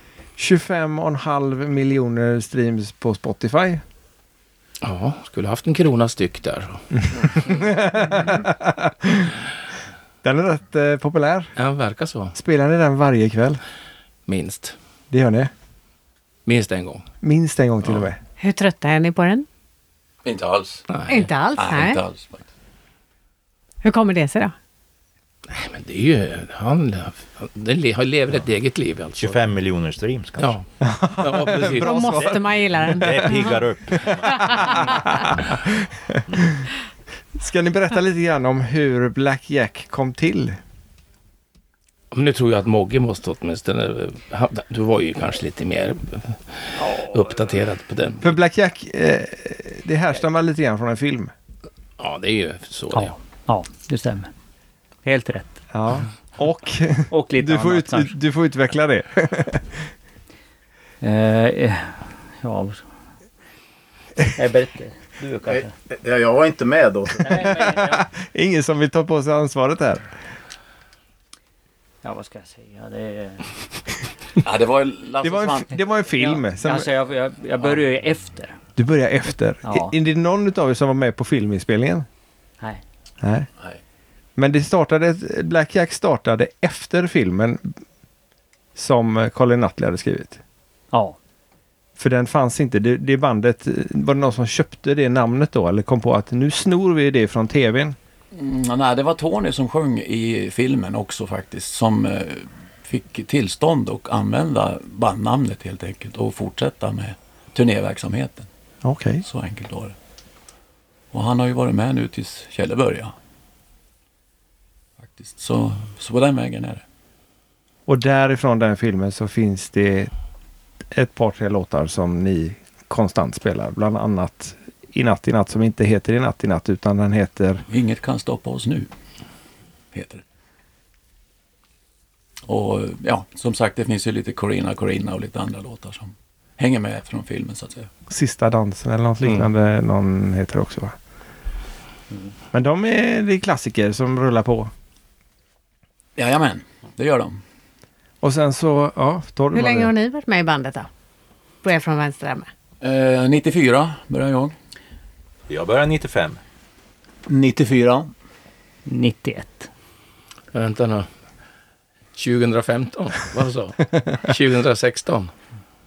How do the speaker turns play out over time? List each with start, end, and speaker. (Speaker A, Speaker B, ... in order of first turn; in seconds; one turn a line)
Speaker A: 0.4-3.8
Speaker B: 4.8-6.8
Speaker A: 7.4-9.4
Speaker A: 10.2-11.5
Speaker B: 11.6-12.3
Speaker A: 12.3-13.6
Speaker B: 14.3-14.8
Speaker A: 15.1-15.5
Speaker B: 16.4-17.1
Speaker A: 17.2-18.2
Speaker C: 18.4-19.5
Speaker D: 20.2-20.9
Speaker B: 20.9-21.3
Speaker C: 21.1-22.0
Speaker D: 21.6-22.4
Speaker C: 23.8-24.5
Speaker B: 25.5-29.4
Speaker E: 29.2-30.6
Speaker B: 30.4-30.6
Speaker A: 30.8-36.6
Speaker B: 31.2-32.2
Speaker C: 31.8-33.6
Speaker E: 32.9-35.2
Speaker C: 34.2-35.1
Speaker A: 37.3-40.6
Speaker B: 42.1-48.3
Speaker A: 48.2-51.3
Speaker B: 52.0-53.2
Speaker F: 52.9-54.3
Speaker F: 55.0-55.6
Speaker A: 55.7-59.9
Speaker F: 57.1-58.2
Speaker F: 61.0-62.9
Speaker F: 64.3-65.7
Speaker G: 65.5-67.5
Speaker F: 67.2-68.0
Speaker A: 67.6-70.0
Speaker F: 72.0-73.5
Speaker D: 74.4-75.8
Speaker A: 75.2-76.9
Speaker F: 76.2-78.6
Speaker A: 78.8-82.1
Speaker F: 79.6-79.9
Speaker A: 83.2-83.5
Speaker A: 84.4-87.8
Speaker A: 88.7-90.4
Speaker F: 90.9-91.2
Speaker A: 92.0-98.0
Speaker D: 98.3-108.5
Speaker A: 108.8-109.2
Speaker D: 109.2-109.9
Speaker D: 111.1-113.1
Speaker D: 115.0-116.8
Speaker A: 117.9-120.1
Speaker A: 120.9-127.6
Speaker D: 127.7-128.9
Speaker D: 129.9-130.2
Speaker D: 132.4-137.9
Speaker A: 138.1-140.9
Speaker A: 142.5-144.7
Speaker D: 146.2-147.4
Speaker A: 148.2-149.9
Speaker C: 149.5-150.9
Speaker C: 151.6-152.5
Speaker D: 152.8-154.5
Speaker E: 155.5-156.4
Speaker G: 157.3-158.1
Speaker F: 158.8-159.7
Speaker B: 160.5-161.1
Speaker B: 162.2-165.3